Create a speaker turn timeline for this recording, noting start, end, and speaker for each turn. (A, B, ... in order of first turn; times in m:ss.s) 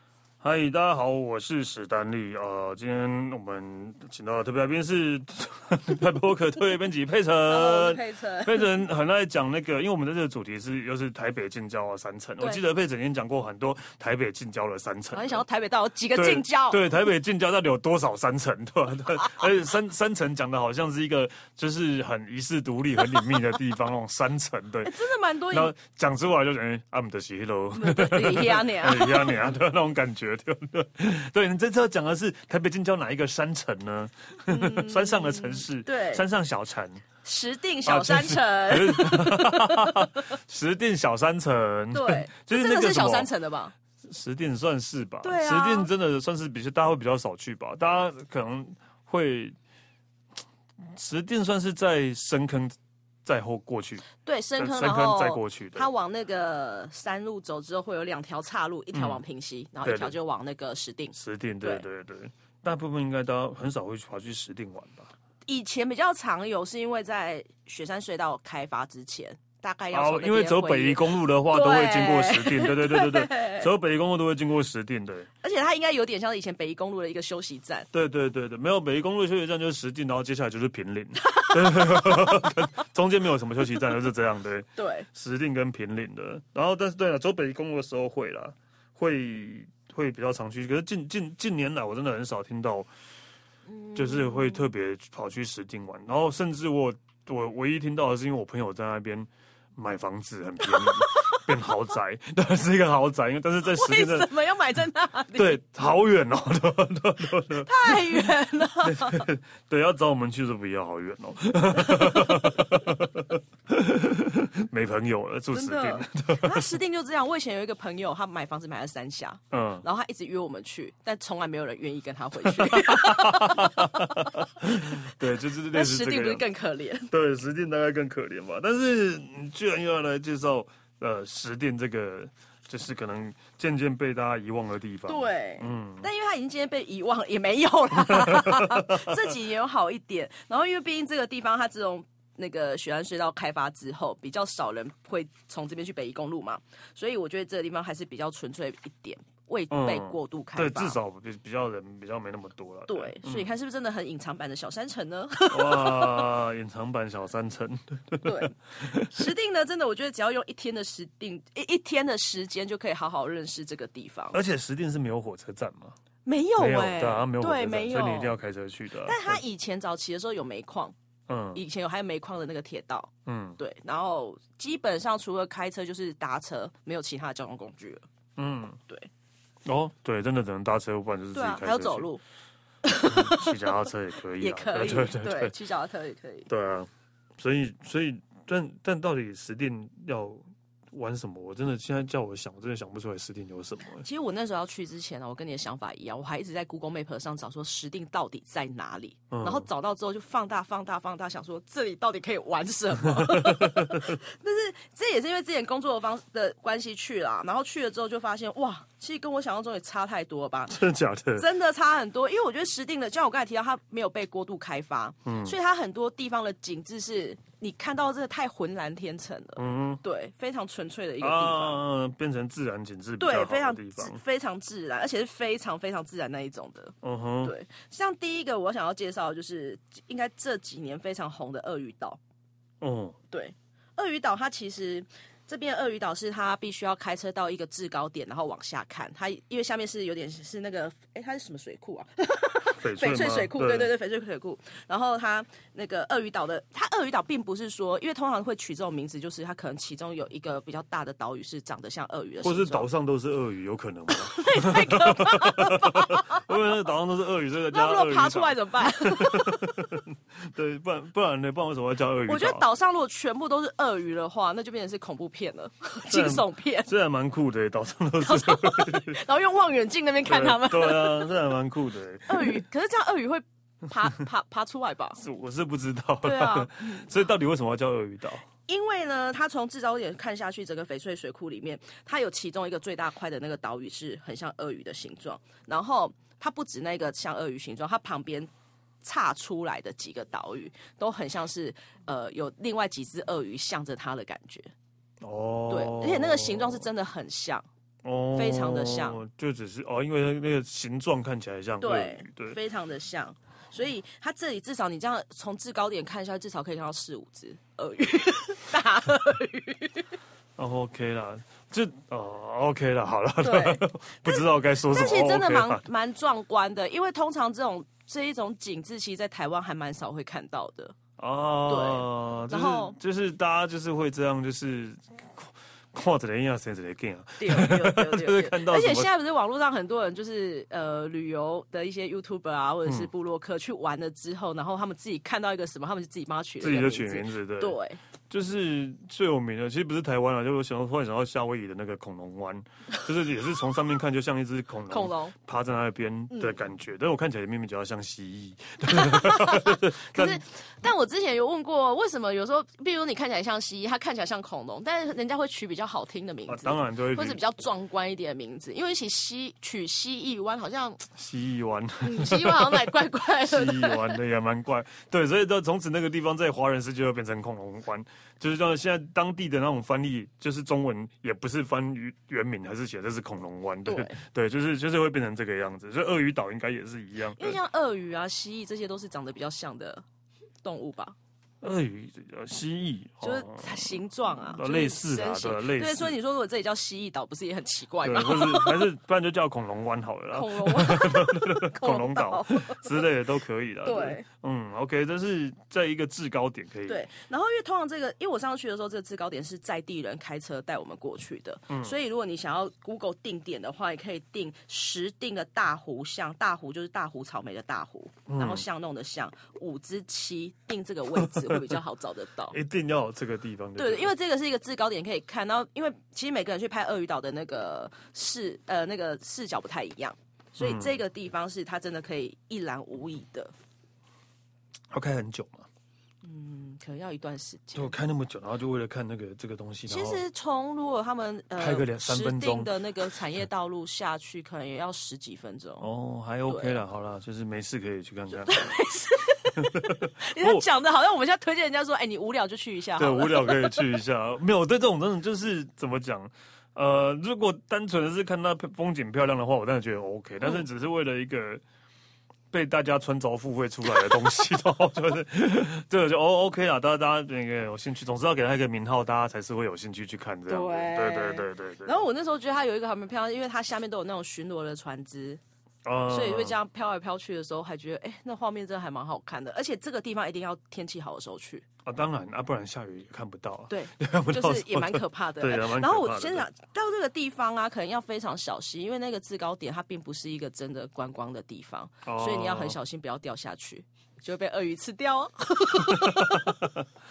0:00.4-0:15.4 A
0:07.5-0:08.7 B
0:15.1-0:16.8 B
0:16.1-0:24.9 A
0:24.8-0:25.7 B
0:25.5-0:37.0 A
0:27.7-0:29.4 B
0:34.5-0:36.2 B
0:37.2-0:40.1 B
0:37.8-0:43.3 A
0:41.9-0:43.7 B
0:44.0-0:49.6 A
0:45.2-0:45.9 B
0:50.8-0:55.9 A
0:54.2-1:01.8 B
0:58.9-0:59.2 A
0:59.8-1:00.1 A
1:01.1-1:05.1 A
1:05.4-1:13.7 B
1:09.9-1:15.3 A
1:15.4-1:17.9 B
1:17.9-1:32.9 A
1:21.3-1:22.6 B
1:24.8-1:25.1 B
1:33.7-1:34.7 B
1:33.9-1:44.3 A
1:40.6-1:41.7 B
1:43.7-1:45.6 B
1:45.4-1:48.1 A
1:47.6-1:49.3 B
1:48.8-1:56.7 A
1:51.8-1:52.5 B
1:55.5-2:04.3 B
1:59.5-1:59.8 A
2:02.4-2:06.4 A
2:05.7-2:07.1 B
2:07.1-2:16.1 A
2:15.1-2:31.0 B
2:18.0-2:19.3 A
2:29.7-2:33.5 A
2:32.9-2:36.3 B
2:35.5-2:39.3 A
2:38.2-2:44.4 B
2:44.3-2:46.0 A
2:46.2-2:48.3 B
2:46.6-2:49.4 A
2:49.0-2:50.9 B
2:51.3-2:51.6 A
2:51.5-2:58.0 B
2:53.2-2:53.6 A
2:58.4-2:58.8 A
2:59.6-3:02.1 A
3:01.3-3:02.2 B
3:02.8-3:03.7 B
3:03.0-3:05.5 A
3:04.4-3:06.5 B
3:06.5-3:14.1 A
3:14.0-3:30.8 B
3:19.3-3:19.7 A
3:23.0-3:24.2 A
3:30.7-3:31.5 A
3:31.3-3:41.8 B
3:35.2-3:35.6 A
3:39.6-3:40.0 A
3:41.2-3:44.2 A
3:43.2-3:52.2 B
3:47.0-3:47.5 A
3:52.8-3:53.2 A
3:53.3-4:12.9 B
4:02.7-4:03.9 A
4:12.4-4:22.7 A
4:14.2-4:16.5 B
4:17.7-4:19.9 B
4:22.3-4:26.9 B
4:26.1-4:29.2 A
4:28.2-4:31.4 B
4:30.3-4:32.6 A
4:32.3-4:35.2 B
4:35.2-4:38.5 A
4:36.2-4:37.1 B
4:38.7-4:48.5 B
4:49.0-4:54.7 B
4:55.2-4:56.8 A
4:55.7-4:57.7 B
4:58.0-5:02.6 A
4:58.3-4:59.2 B
5:01.8-5:10.1 B
5:10.6-5:15.8 A
5:13.4-5:21.0 B
5:21.2-5:29.1 A
5:21.7-5:23.0 B
5:27.4-5:38.0 B
5:36.6-5:37.8 A
5:38.3-5:50.4 A
5:44.9-5:45.4 B
5:48.8-6:01.1 B
5:56.5-5:57.4 A
6:01.2-6:17.6 A
6:02.0-6:04.2 B
6:13.9-6:14.2 B
6:17.4-6:20.0 B
6:20.6-6:21.2 B
6:21.6-6:26.2 A
6:23.2-6:28.9 B
6:28.0-6:37.1 A
6:30.3-6:33.0 B
6:33.8-6:34.2 B
6:36.9-6:52.6 B
6:41.7-6:42.0 A
6:48.3-6:48.6 A
6:51.2-6:51.8 A
6:52.5-6:54.1 A
6:53.8-7:03.5 B
7:00.6-7:01.0 A
7:04.9-7:05.7 A
7:06.2-7:08.0 B
7:07.7-7:10.2 A
7:09.9-7:15.9 B
7:11.6-7:12.8 A
7:15.8-7:18.7 A
7:16.5-7:16.8 B
7:18.4-7:24.0 B
7:19.5-7:20.7 A
7:23.0-7:31.6 A
7:32.5-7:42.0 A
7:40.5-7:45.4 B
7:45.8-7:46.6 A
7:46.1-7:51.7 B
7:51.8-7:56.5 A
7:53.7-8:06.6 B
8:02.0-8:02.8 A
8:05.8-8:06.9 A